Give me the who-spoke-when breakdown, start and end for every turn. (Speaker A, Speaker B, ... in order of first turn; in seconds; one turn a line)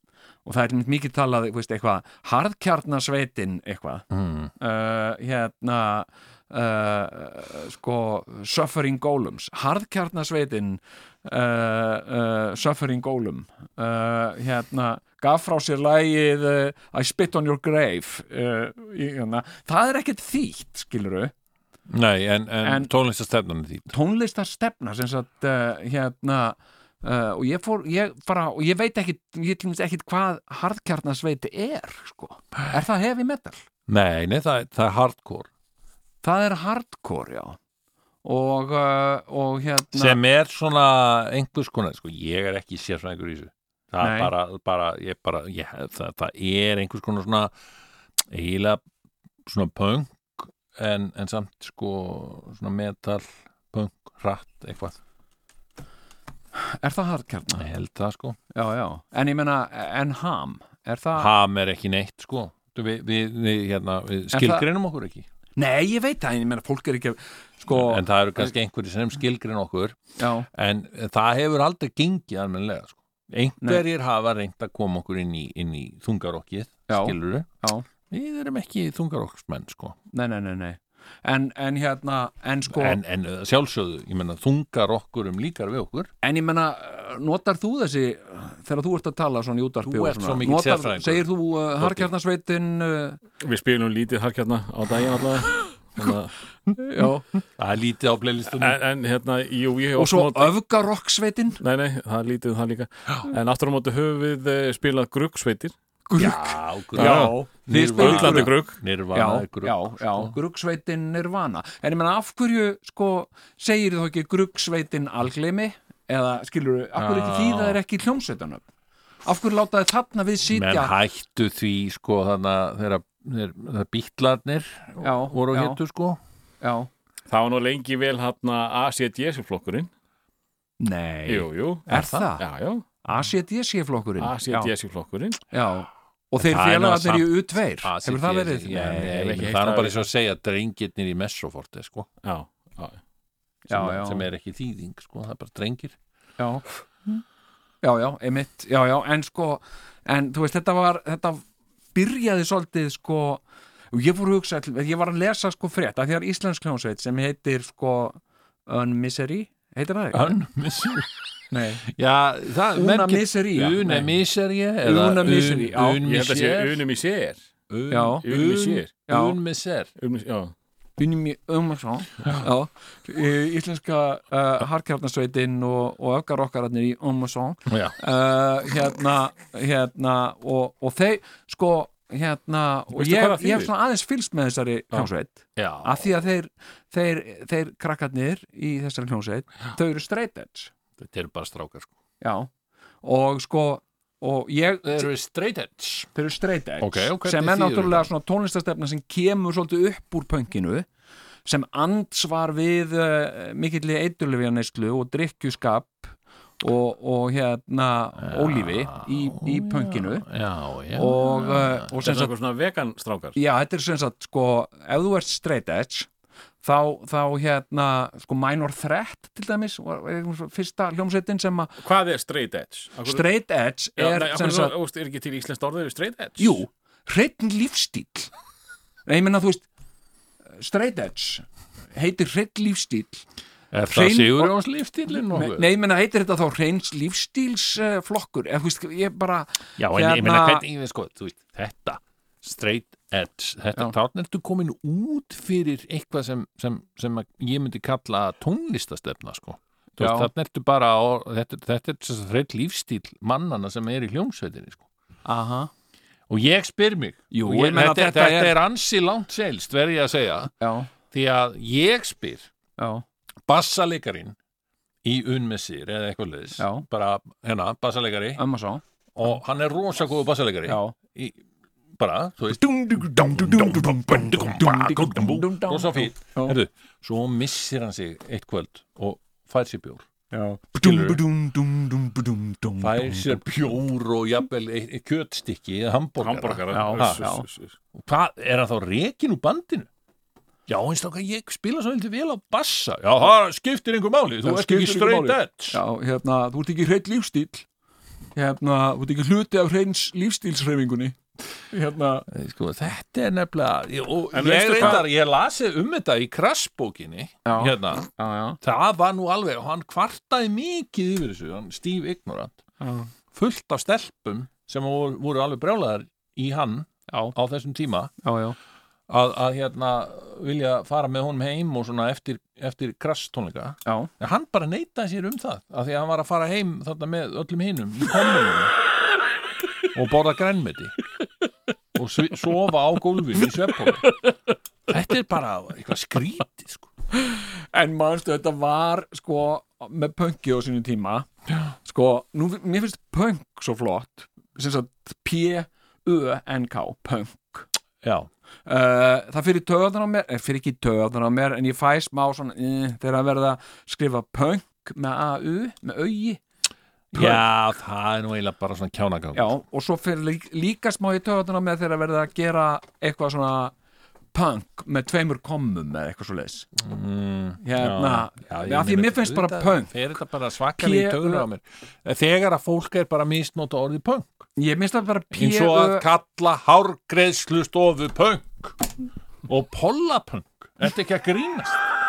Speaker A: 0.5-4.1
Speaker B: 4.1-4.5
Speaker A: 4.6-21.3
Speaker B: 21.9-23.9
Speaker A: 22.6-22.9
Speaker A: 23.9-33.6
Speaker B: 33.9-35.5
Speaker A: 36.2-37.6
Speaker A: 38.2-40.2
Speaker B: 39.9-47.5
Speaker A: 44.0-44.3
Speaker B: 48.3-48.8
Speaker B: 49.5-55.0
Speaker A: 56.5-57.6
Speaker B: 57.5-58.4
Speaker A: 58.5-61.3
Speaker B: 61.2-65.3
Speaker A: 64.3-64.7
Speaker A: 65.6-68.5
Speaker B: 67.7-70.0
Speaker A: 70.2-70.5
Speaker B: 70.5-77.5
Speaker A: 76.9-77.9
Speaker B: 78.1-80.0
Speaker A: 80.1-83.0
Speaker B: 82.7-86.1
Speaker A: 86.2-93.2
Speaker B: 89.8-92.1
Speaker C: 93.4-96.3
Speaker A: 96.8-97.2
Speaker B: 97.6-98.8
Speaker C: 98.5-100.5
Speaker A: 100.0-101.6
Speaker C: 101.6-105.7
Speaker A: 106.1-108.6
Speaker B: 106.2-110.3
Speaker C: 107.0-107.4
Speaker C: 108.0-108.8
Speaker A: 109.1-118.7
Speaker B: 117.0-117.8
Speaker A: 119.2-120.9
Speaker B: 120.5-126.2
Speaker A: 125.0-125.8
Speaker A: 126.6-126.9
Speaker C: 127.3-129.9
Speaker A: 130.8-132.4
Speaker C: 131.3-131.9
Speaker B: 131.9-132.3
Speaker C: 132.4-132.8
Speaker A: 133.1-134.7
Speaker C: 134.2-135.4
Speaker A: 135.5-139.4
Speaker B: 136.4-142.1
Speaker C: 139.1-140.0
Speaker C: 142.2-143.0
Speaker A: 143.7-144.2
Speaker B: 143.7-146.0
Speaker A: 146.4-147.2
Speaker A: 147.8-160.4
Speaker B: 160.1-161.1
Speaker A: 161.5-161.9
Speaker B: 161.9-166.8
Speaker A: 162.8-164.1
Speaker A: 164.8-166.0
Speaker C: 166.0-167.4
Speaker B: 167.7-169.9
Speaker A: 167.9-168.2
Speaker C: 168.2-168.9
Speaker A: 169.1-169.4
Speaker C: 170.0-170.5
Speaker A: 171.0-190.7
Speaker B: 177.7-178.0
Speaker C: 182.9-183.7
Speaker B: 185.6-186.1
Speaker B: 191.0-191.9
Speaker A: 192.2-192.5
Speaker A: 193.0-195.1
Speaker B: 194.8-196.1
Speaker A: 196.2-200.9
Speaker B: 196.8-198.1
Speaker A: 201.5-210.3
Speaker B: 208.2-211.9
Speaker A: 210.9-212.3
Speaker C: 212.0-213.4
Speaker A: 213.4-216.1
Speaker A: 216.6-221.8
Speaker C: 221.8-223.3
Speaker A: 223.1-224.7
Speaker C: 224.0-226.6
Speaker A: 226.4-228.3
Speaker A: 229.1-229.7
Speaker A: 230.6-233.2
Speaker B: 233.7-235.7
Speaker A: 233.9-234.6
Speaker A: 235.1-240.7
Speaker B: 239.8-254.9
Speaker A: 250.0-250.3
Speaker A: 255.2-255.7
Speaker B: 256.3-260.5
Speaker A: 257.3-258.6
Speaker A: 260.6-260.9
Speaker B: 261.1-262.5
Speaker A: 262.8-263.0
Speaker B: 263.5-264.4
Speaker B: 265.0-268.4
Speaker A: 266.6-266.9
Speaker A: 268.4-269.4
Speaker B: 269.1-271.4
Speaker A: 270.7-270.9
Speaker B: 272.0-280.1
Speaker A: 272.5-276.6
Speaker A: 280.3-283.4
Speaker B: 280.7-281.2
Speaker B: 282.8-287.3
Speaker C: 286.2-287.8
Speaker A: 286.7-287.4
Speaker B: 287.9-289.9
Speaker B: 290.7-295.8
Speaker A: 294.4-297.6
Speaker A: 298.4-301.2
Speaker A: 301.7-302.3
Speaker B: 302.3-308.1
Speaker C: 304.3-305.0
Speaker A: 304.6-305.0
Speaker A: 307.4-308.6
Speaker B: 308.6-312.6
Speaker A: 312.8-313.1
Speaker B: 313.3-318.1
Speaker A: 317.1-317.3
Speaker A: 318.2-318.6
Speaker B: 319.1-328.7
Speaker A: 323.9-324.1
Speaker B: 329.9-330.9
Speaker B: 331.9-334.1
Speaker B: 334.9-336.9
Speaker A: 337.7-341.3
Speaker A: 341.8-347.7
Speaker B: 348.0-348.3
Speaker A: 348.7-356.4
Speaker B: 357.1-359.5
Speaker A: 357.1-357.4
Speaker A: 359.3-363.7
Speaker A: 364.3-366.7
Speaker B: 366.8-374.5
Speaker A: 367.6-370.1
Speaker A: 370.8-371.5
Speaker A: 374.6-376.1
Speaker B: 375.3-378.9
Speaker B: 379.4-381.8